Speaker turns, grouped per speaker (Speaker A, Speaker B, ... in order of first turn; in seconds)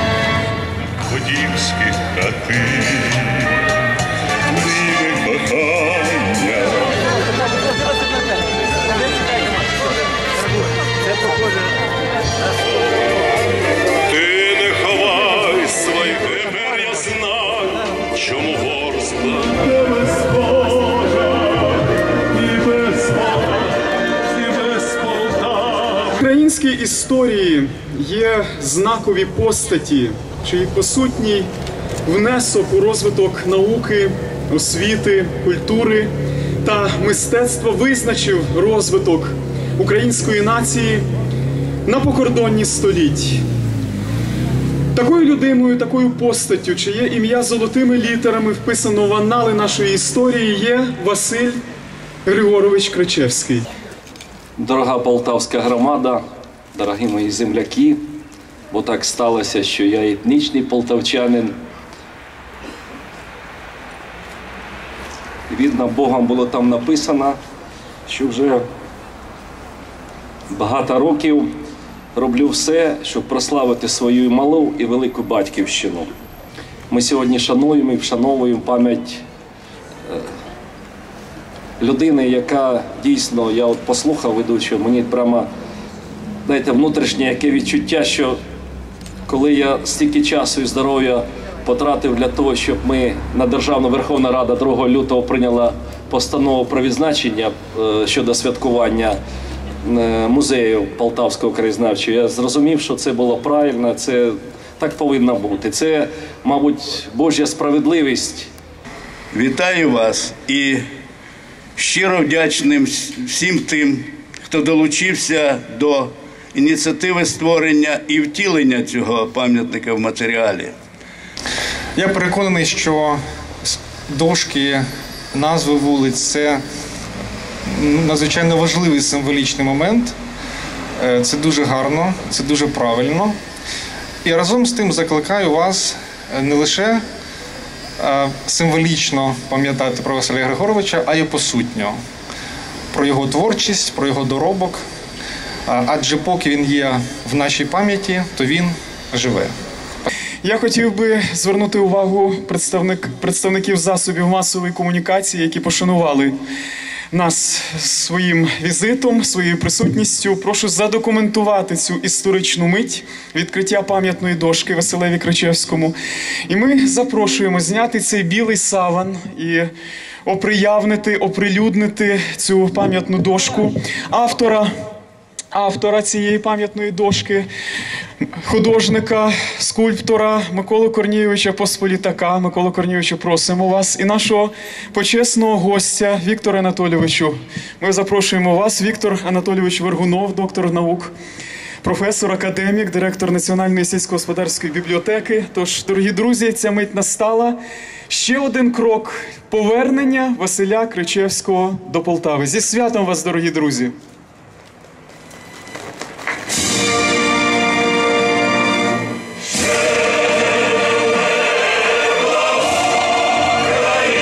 Speaker A: 1.1-3.6, 4.5-6.9, 14.4-15.4
Speaker B: 14.2-17.3, 18.2-19.5, 25.0-25.4, 54.6-56.2, 56.7-58.1, 58.7-61.6, 65.5-67.4, 68.1-68.7, 70.5-71.5, 72.2-76.1, 76.9-79.2, 81.8-85.5, 86.5-88.4, 89.3-99.2, 99.8-108.5
Speaker C: 19.6-21.7, 22.3-23.7, 24.7-31.5, 32.1-36.1, 36.6-41.1, 41.9-43.4, 45.0-51.6, 52.2-53.7, 150.4-156.4, 157.1-165.9, 166.5-169.7, 170.2-174.7, 175.5-177.5, 178.2-191.1, 191.8-197.6, 198.1-203.9
Speaker D: 109.3-110.8, 111.8-120.7
Speaker E: 122.0-126.6, 127.7-130.2, 131.0-133.4, 134.2-137.0, 138.0-142.0, 142.9-144.8, 145.7-149.5